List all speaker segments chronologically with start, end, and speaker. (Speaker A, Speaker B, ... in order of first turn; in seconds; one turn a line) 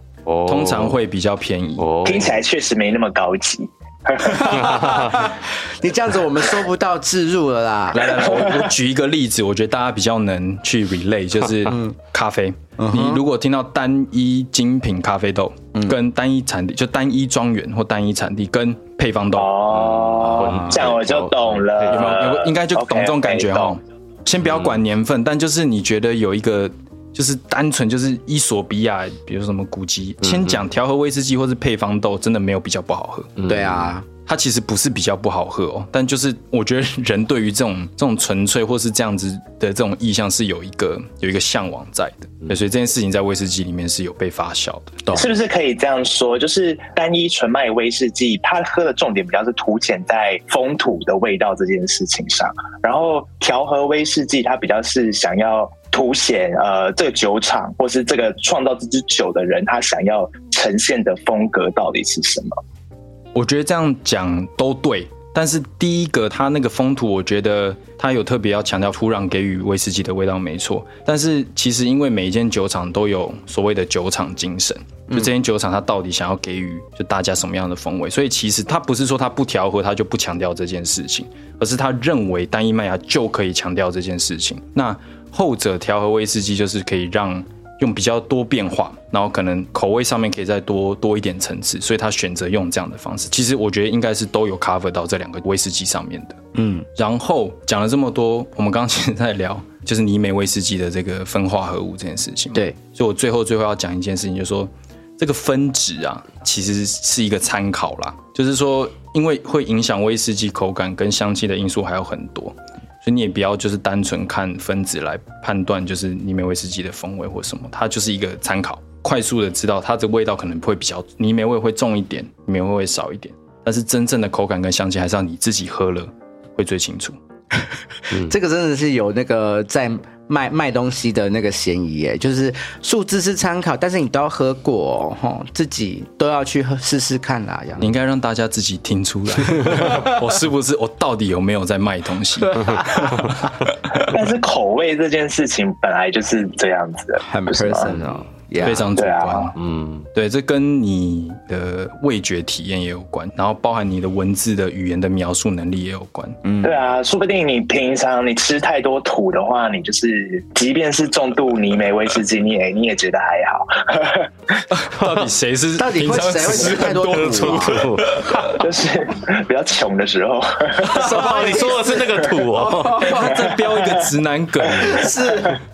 Speaker A: 0.3-1.0
Speaker B: 0.5-1.9
Speaker A: 1.8-2.4
Speaker C: 2.0-5.0
Speaker D: 4.2-8.1
Speaker A: 4.6-5.2
Speaker B: 7.9-19.5
Speaker C: 8.1-8.7
Speaker D: 11.7-11.9
Speaker D: 12.8-13.2
Speaker C: 19.4-23.8
Speaker A: 19.7-22.1
Speaker D: 20.2-20.9
Speaker B: 20.4-20.9
Speaker B: 21.9-33.3
Speaker A: 24.4-24.8
Speaker A: 30.2-30.6
Speaker A: 33.4-33.9
Speaker D: 33.4-34.1
Speaker B: 34.3-45.1
Speaker C: 45.1-62.5
Speaker B: 63.3-96.4
Speaker D: 75.1-75.3
Speaker D: 96.5-96.9
Speaker B: 97.0-127.2
Speaker D: 127.6-137.9
Speaker B: 137.8-144.1
Speaker C: 144.1-148.0
Speaker D: 147.2-148.9
Speaker B: 148.6-149.6
Speaker C: 148.9-149.5
Speaker A: 149.6-150.1
Speaker B: 150.1-156.4
Speaker D: 156.4-156.8
Speaker C: 156.6-164.6
Speaker B: 164.7-168.6
Speaker A: 165.0-165.2
Speaker D: 165.8-167.9
Speaker A: 166.9-168.7
Speaker C: 168.6-171.3
Speaker D: 170.8-173.7
Speaker A: 170.9-173.2
Speaker B: 170.9-171.6
Speaker B: 173.0-175.5
Speaker D: 174.8-175.6